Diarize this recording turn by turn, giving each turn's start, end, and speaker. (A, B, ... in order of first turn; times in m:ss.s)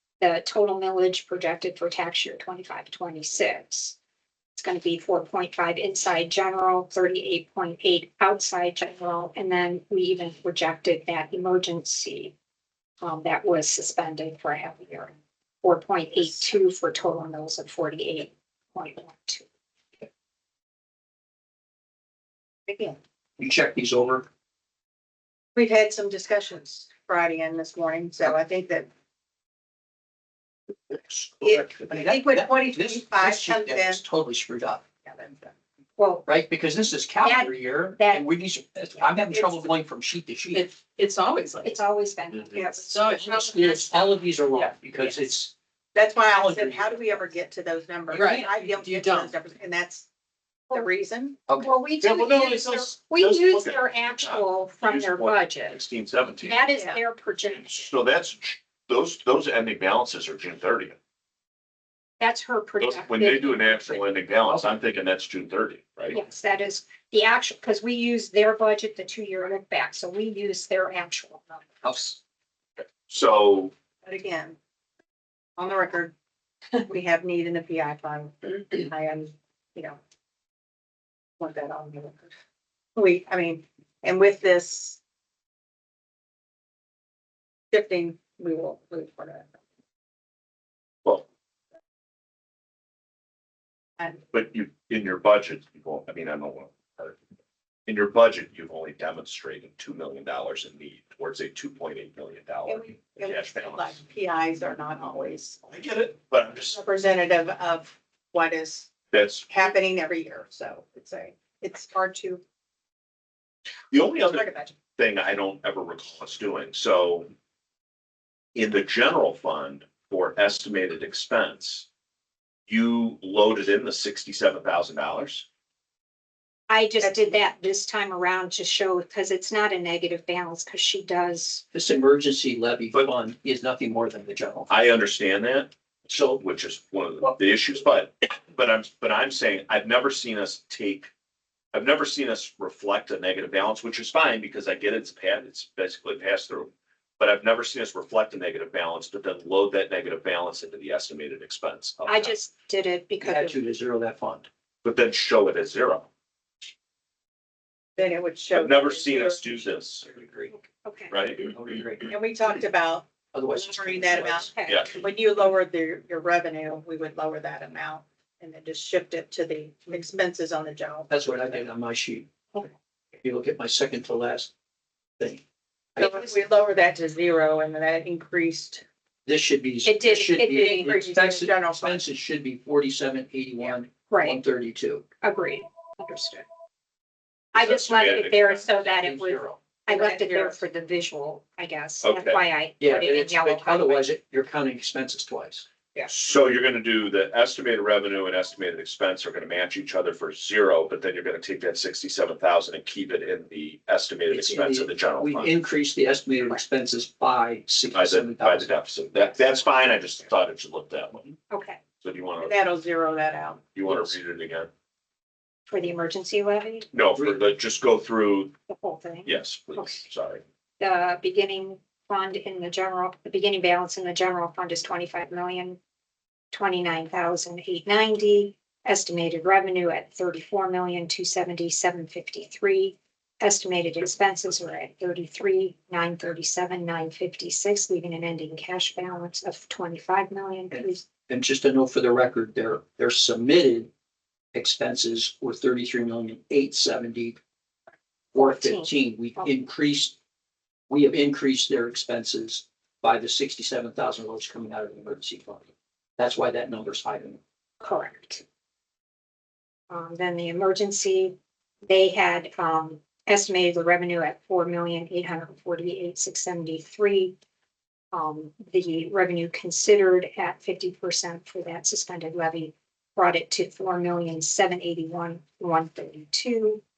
0:00.2-0:04.0 A
0:04.5-0:12.3 A
0:13.0-0:19.5 A
0:22.7-0:23.0 B
0:23.4-0:24.3 C
0:25.6-0:28.9 B
0:30.9-0:34.8 C
0:31.4-0:34.0 B
0:35.0-0:35.5 B
0:36.0-0:36.3 A
0:36.2-0:40.7 C
0:37.2-0:38.2 A
0:40.5-0:41.8 D
0:41.6-0:43.0 A
0:42.6-0:42.8 B
0:42.6-0:44.0 D
0:43.0-0:45.5 C
0:45.9-0:50.1 B
0:46.3-0:47.2 C
0:48.1-0:49.2 C
0:48.1-0:49.3 D
0:50.7-0:51.4 B
0:51.6-0:55.8 A
0:52.0-0:56.6 E
0:56.4-0:57.9 A
0:57.5-1:01.0 E
1:02.2-1:04.1 A
1:02.8-1:06.2 E
1:04.5-1:04.7 C
1:06.1-1:11.8 A
1:11.8-1:12.2 C
1:13.0-1:13.7 E
1:14.0-1:14.6 B
1:15.6-1:16.1 B
1:16.8-1:20.0 B
1:21.4-1:22.3 B
1:23.0-1:25.0 B
1:27.7-1:29.6 B
1:34.3-1:37.2 E
1:37.9-1:44.0 E
1:42.7-1:45.6 B
1:45.6-1:46.8 E
1:46.7-1:48.9 B
1:49.1-1:49.5 E
1:49.5-1:52.4 B
1:53.9-1:57.3 E
1:54.2-1:54.7 B
1:58.5-2:01.9 E
2:02.7-2:05.4 E
2:06.7-2:11.6 A
2:07.0-2:07.3 B
2:11.7-2:14.7 C
2:14.7-2:21.1 E
2:21.7-2:32.4 E
2:32.1-2:33.6 A
2:33.2-2:34.5 C
2:34.8-2:36.1 E
2:38.0-2:39.6 B
2:38.5-2:40.0 E
2:40.0-2:40.5 C
2:40.5-2:41.2 A
2:41.1-2:41.6 E
2:41.5-2:42.2 C
2:42.1-2:51.6 B
2:43.3-2:44.5 C
2:44.5-2:45.0 A
2:44.7-2:44.9 E
2:51.1-2:52.7 C
2:53.2-2:54.5 C
2:56.0-2:56.3 C
2:56.0-2:58.8 B
2:59.2-3:05.0 C
2:59.8-3:00.6 A
3:00.4-3:02.0 B
3:04.1-3:04.4 A
3:05.2-3:06.4 A
3:07.5-3:14.1 A
3:07.5-3:08.7 E
3:08.8-3:09.6 C
3:09.9-3:10.6 B
3:12.0-3:12.4 E
3:12.8-3:15.6 C
3:16.1-3:25.5 E
3:24.3-3:28.7 C
3:27.9-3:31.3 E
3:31.5-3:31.8 A
3:32.0-3:32.6 E
3:32.4-3:33.6 B
3:33.7-3:34.7 E
3:33.9-3:34.1 C
3:35.7-3:36.9 A
3:36.9-3:38.5 E
3:38.7-3:40.1 A
3:39.2-3:40.4 E
3:40.8-3:45.8 A
3:46.5-4:01.0 A
4:00.7-4:03.9 C
4:04.5-4:07.4 C
4:08.3-4:10.2 C
4:08.3-4:09.4 A
4:10.9-4:17.4 C
4:17.8-4:18.4 A
4:19.9-4:27.3 A
4:28.1-4:36.8 A